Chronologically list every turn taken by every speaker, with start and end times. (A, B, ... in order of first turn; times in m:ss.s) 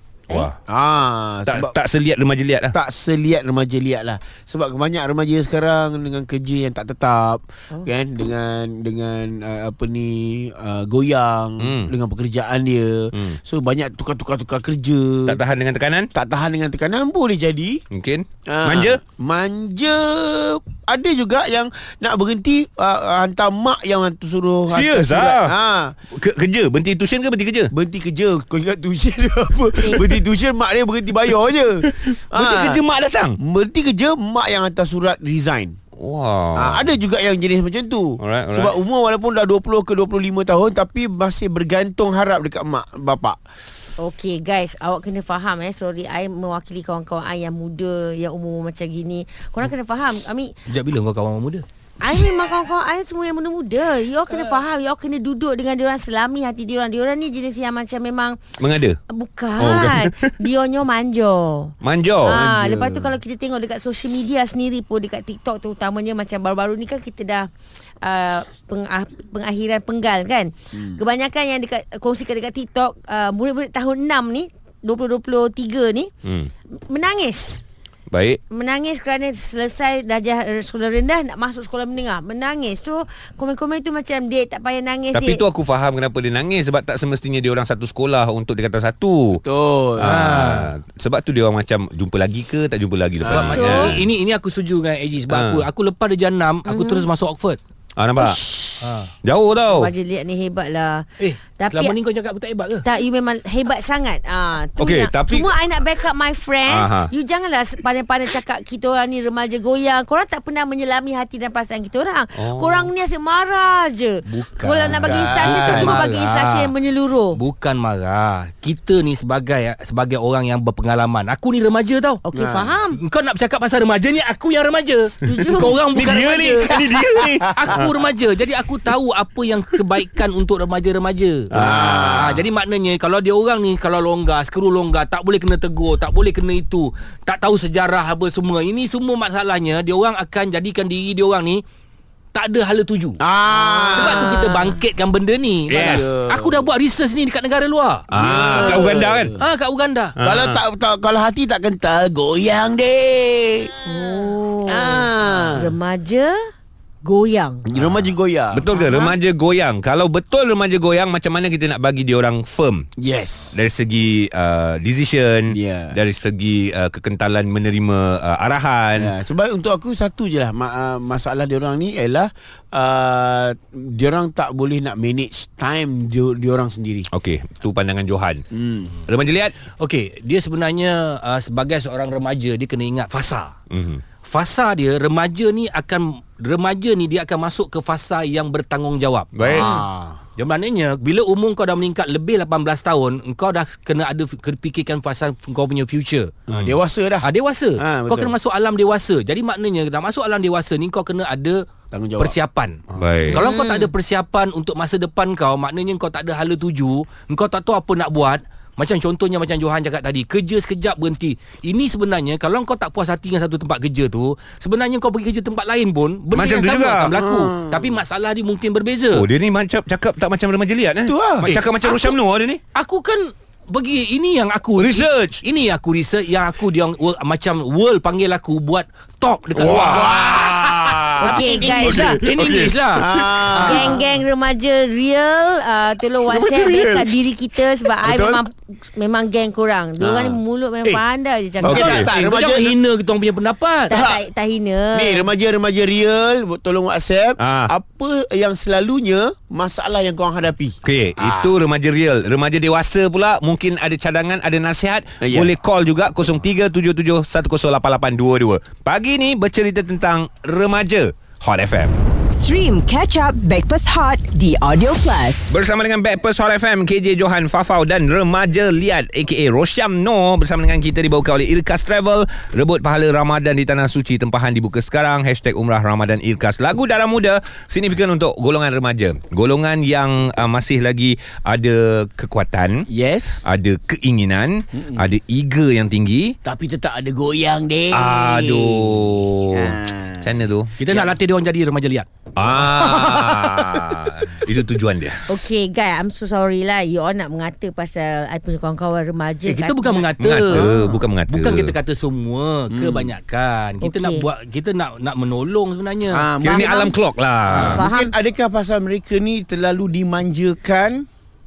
0:00.7-0:01.8 A
0:01.5-0:02.7 B
0:02.7-0:15.4 A
0:11.6-0:11.9 B
0:15.3-0:16.1 B
0:16.2-0:17.8 A
0:17.9-0:19.0 B
0:18.5-0:26.0 A
0:24.7-0:25.5 B
0:26.1-0:27.7 B
0:27.7-0:32.8 A
0:31.8-0:33.4 B
0:33.4-0:35.8 A
0:36.0-0:36.8 B
0:36.6-0:43.4 A
0:38.2-0:38.7 B
0:44.0-0:50.5 C
0:50.7-0:51.6 D
0:52.0-0:58.4 C
0:54.3-0:54.6 A
0:58.6-0:59.0 B
0:59.1-1:01.7 C
0:59.6-1:00.3 B
1:01.8-1:02.4 B
1:02.2-1:07.5 C
1:02.3-1:03.2 A
1:08.0-1:16.1 C
1:16.2-1:16.5 B
1:16.9-1:17.6 C
1:18.1-1:18.4 B
1:18.5-1:25.4 C
1:25.1-1:29.4 B
1:29.4-1:30.2 A
1:30.0-1:34.0 B
1:30.0-1:30.7 D
1:33.2-1:33.6 A
1:33.3-1:37.6 D
1:33.4-1:33.9 C
1:35.3-1:35.7 B
1:36.7-1:37.1 C
1:38.0-1:38.4 B
1:38.2-1:38.7 C
1:38.8-1:39.1 D
1:39.2-1:39.9 B
1:39.7-1:41.0 C
1:41.2-1:42.8 D
1:41.6-1:42.0 C
1:42.8-1:57.4 C
1:44.8-1:45.5 B
1:46.7-1:47.1 B
1:52.4-1:52.9 B
1:54.3-1:56.7 D
1:54.9-1:56.0 A
1:57.4-2:02.2 D
2:02.2-2:03.0 C
2:02.3-2:02.8 A
2:03.0-2:06.7 D
2:05.2-2:05.8 C
2:05.9-2:07.9 B
2:07.6-2:11.5 D
2:11.5-2:12.2 B
2:11.6-2:12.4 A
2:12.1-2:21.6 D
2:22.3-2:23.2 D
2:23.2-2:24.4 A
2:23.5-2:24.8 C
2:23.9-2:28.1 D
2:25.7-2:26.0 B
2:25.8-2:26.7 A
2:28.1-2:29.3 B
2:28.1-2:29.4 A
2:29.4-2:30.1 D
2:30.2-2:30.6 B
2:30.2-2:35.7 A
2:33.9-2:36.4 C
2:37.0-2:37.6 C
2:37.7-2:38.6 A
2:37.8-2:42.8 B
2:38.7-2:39.2 C
2:43.0-2:43.6 A
2:43.6-2:49.1 B
2:45.5-2:46.0 A
2:49.0-2:57.1 A
2:57.1-2:58.4 B
2:58.5-2:59.0 A
2:59.1-2:59.5 B
2:59.8-3:03.6 D
3:03.7-3:04.0 B
3:04.2-3:09.6 D
3:09.4-3:09.7 B
3:09.5-3:10.2 A
3:09.6-3:09.8 C
3:10.4-3:16.3 D
3:16.5-3:16.7 B
3:16.5-3:18.3 A
3:17.2-3:21.6 D
3:21.9-3:22.4 A
3:22.2-3:22.8 D
3:23.0-3:23.4 B
3:23.3-3:23.9 C
3:23.3-3:39.3 D
3:36.3-3:37.2 B
3:37.2-3:37.9 A
3:39.1-3:42.6 B
3:41.1-3:41.6 A
3:41.5-3:42.1 D
3:42.7-3:50.1 D
3:44.8-3:45.4 B
3:49.6-3:53.4 B
3:49.6-3:52.2 A
3:51.2-3:52.1 C
3:51.6-3:54.0 D
3:53.0-3:54.0 A
3:53.6-4:02.0 C
3:56.2-3:57.1 B
3:58.0-3:58.4 B
4:00.0-4:00.4 A
4:01.6-4:02.8 A
4:01.7-4:02.1 B
4:01.8-4:03.9 D
4:03.9-4:05.3 C
4:03.9-4:04.2 A
4:04.9-4:11.5 A
4:07.4-4:07.7 B
4:10.8-4:22.0 B
4:15.2-4:15.5 A
4:22.3-4:25.5 E
4:25.5-4:42.8 B
4:42.9-4:43.4 A
4:43.5-4:46.4 B
4:44.8-4:45.0 A
4:46.4-4:51.1 A
4:47.9-4:49.7 B
4:50.2-4:50.7 B
4:50.8-4:52.1 D
4:52.4-4:55.2 B
4:52.5-4:53.9 A
4:55.3-5:00.1 C
4:59.5-5:00.7 D
5:00.2-5:01.7 B
5:01.3-5:06.3 D
5:02.7-5:03.1 A
5:03.8-5:04.2 C
5:06.1-5:06.9 A
5:06.4-5:07.8 B
5:06.6-5:06.9 C
5:07.5-5:07.8 D
5:07.8-5:08.1 C
5:07.8-5:11.1 A